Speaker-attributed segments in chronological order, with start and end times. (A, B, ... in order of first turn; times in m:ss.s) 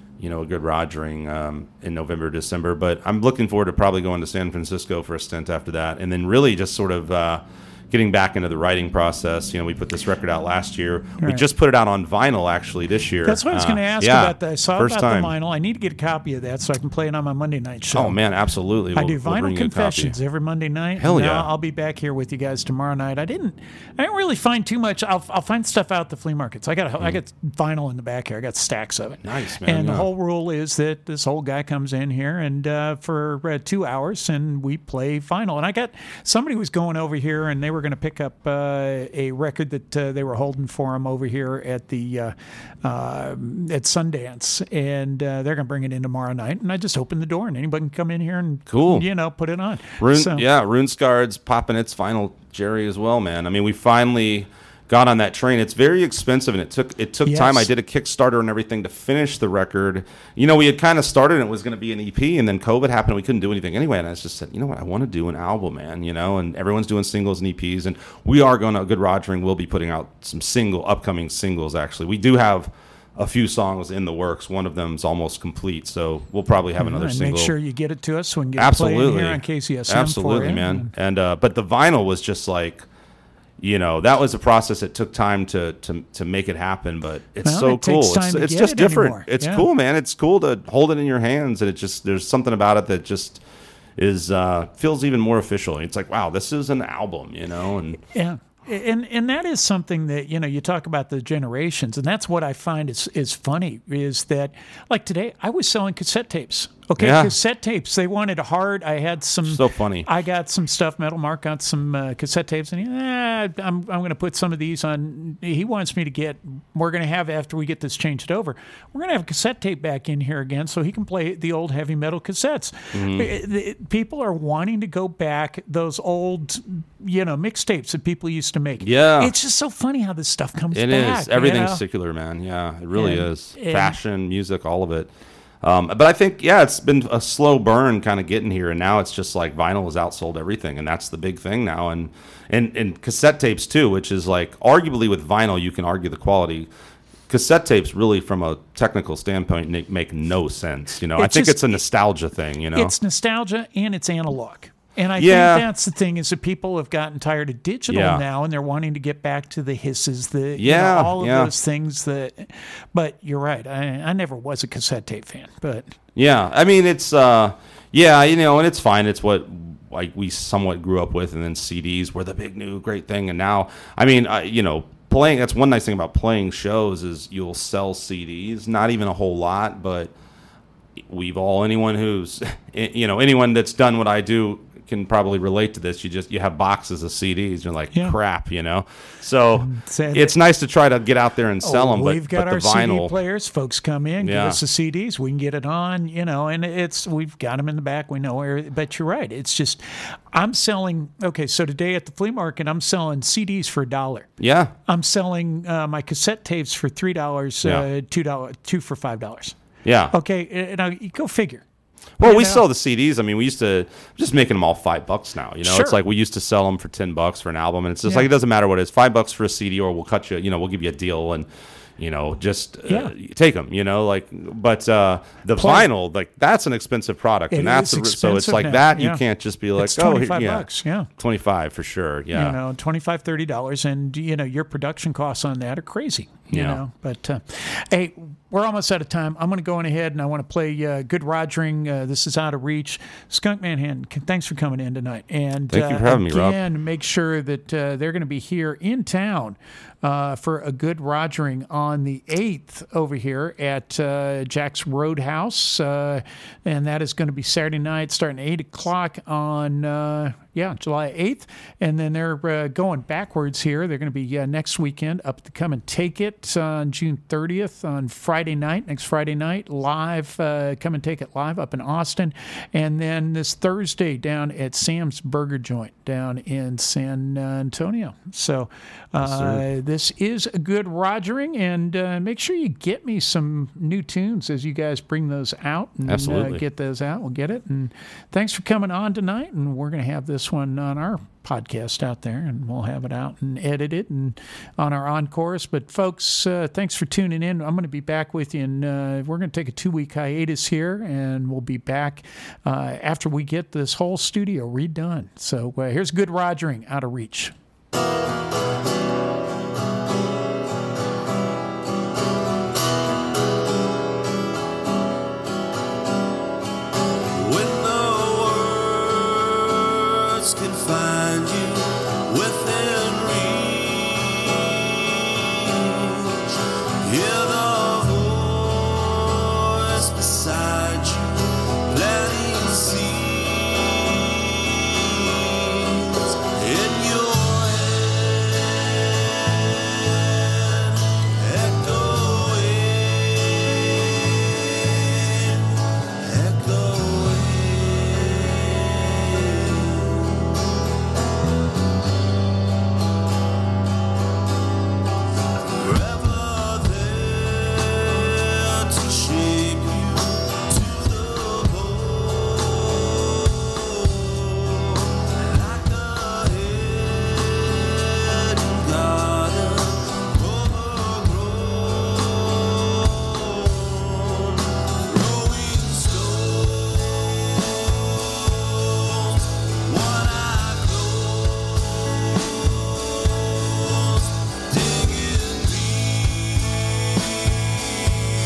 0:00.2-0:15.3 A
0:11.2-0:11.4 B
0:13.2-0:18.2 B
0:17.9-0:20.2 A
0:18.9-0:50.4 B
0:21.0-0:21.5 A
0:29.2-0:30.1 A
0:48.7-0:49.1 A
0:50.0-1:17.5 A
0:57.2-0:57.7 B
1:16.8-1:20.9 B
1:18.6-1:22.9 A
1:23.6-1:33.4 A
1:27.4-1:29.7 B
1:34.0-1:38.0 A
1:38.1-2:11.8 B
1:47.0-1:47.3 A
1:49.4-1:50.1 A
2:02.9-2:03.3 A
2:08.8-2:09.3 A
2:10.7-2:15.1 A
2:12.9-2:14.0 B
2:15.6-2:26.7 A
2:27.3-2:32.9 A
2:31.2-2:31.8 B
2:32.7-2:45.9 B
2:35.2-2:35.6 A
2:37.9-2:38.2 A
2:40.6-2:41.5 A
2:46.2-3:00.1 A
3:01.0-3:13.1 A
3:09.6-3:10.3 B
3:11.6-3:24.3 B
3:14.2-3:14.6 A
3:24.4-3:24.7 A
3:24.9-3:29.6 B
3:29.8-3:30.1 A
3:30.1-3:31.6 B
3:32.2-3:41.5 A
3:32.2-3:32.6 B
3:35.6-3:36.0 B
3:42.0-3:52.6 A
3:42.9-3:43.1 B
3:45.6-3:45.9 B
3:47.5-3:49.2 B
3:49.8-3:51.1 B
3:52.3-5:07.5 B
3:56.5-3:56.8 A
4:05.7-4:06.6 A
4:39.2-4:39.6 A
4:46.1-4:46.6 A
5:17.5-5:19.1 C
5:20.4-5:21.8 C
5:22.3-5:23.5 C
5:30.4-5:30.7 C
5:36.7-5:38.1 C
5:41.5-5:43.5 C
5:46.3-5:48.2 C
5:55.8-6:02.8 C
6:05.6-6:07.0 C
6:08.3-6:11.7 C
6:19.9-6:21.5 C
6:24.7-6:26.3 C